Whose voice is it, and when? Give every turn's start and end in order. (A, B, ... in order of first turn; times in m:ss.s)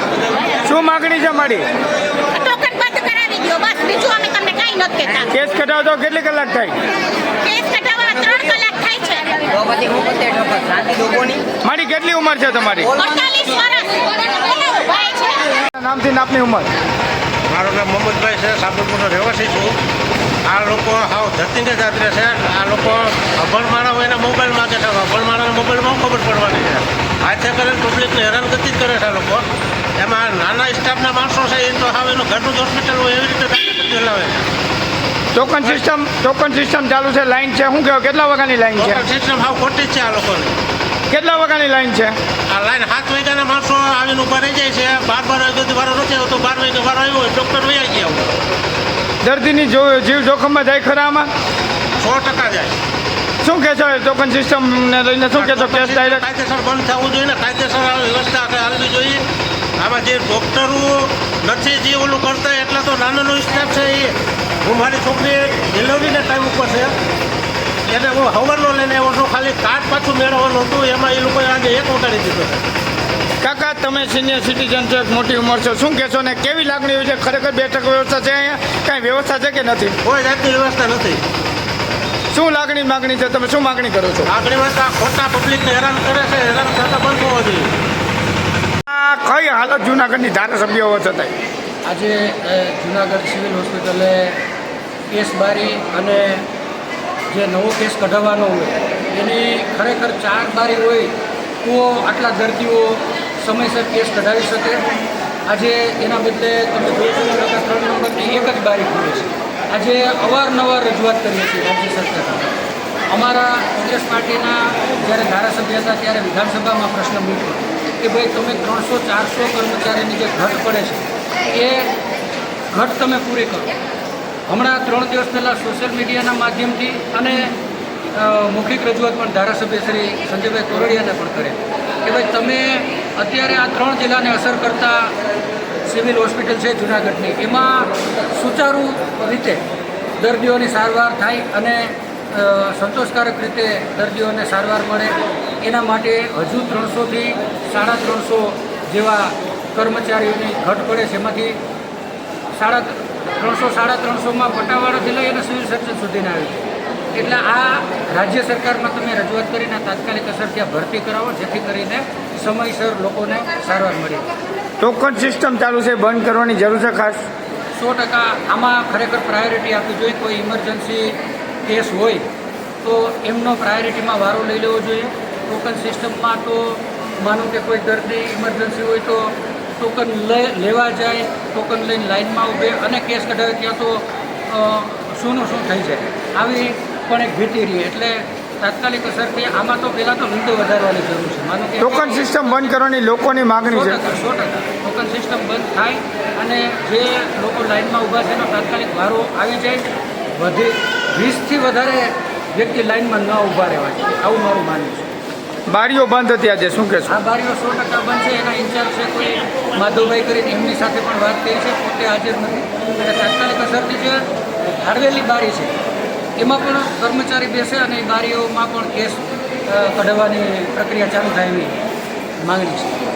0:00.6-0:01.7 A
0:02.3-0:05.3 B
0:05.3-0:06.8 A
0:07.4-0:09.7 B
0:11.6-0:13.0 A
0:12.9-0:15.5 B
0:15.6-0:16.7 A
0:17.5-0:19.8 C
0:20.4-0:29.5 C
0:30.0-0:34.4 C
0:35.3-0:39.0 A
0:38.8-0:40.5 C
0:41.1-0:42.2 A
0:42.5-0:48.3 C
0:49.2-0:51.3 A
0:52.0-0:52.7 C
0:53.4-0:56.2 A
0:55.4-0:59.2 C
0:59.8-1:06.9 C
1:07.9-1:12.6 C
1:13.4-1:20.0 A
1:20.0-1:21.2 C
1:22.3-1:24.3 A
1:24.3-1:27.7 C
1:28.9-1:31.3 A
1:31.8-1:34.4 D
1:35.1-1:36.4 D
1:37.3-1:44.8 D
1:45.5-1:52.5 D
1:53.1-2:01.9 D
2:02.7-2:03.7 D
2:04.5-2:07.5 D
2:08.1-2:15.2 D
2:15.8-2:19.6 D
2:20.2-2:31.6 D
2:32.5-2:36.6 D
2:37.1-2:44.3 D
2:44.8-2:47.2 A
2:47.8-2:52.3 D
2:52.8-3:12.3 D
3:11.8-3:14.0 A
3:13.6-3:19.8 D
3:20.4-3:25.1 D
3:25.7-3:27.1 A
3:27.1-3:35.8 D
3:36.4-3:41.8 D
3:42.4-3:43.0 D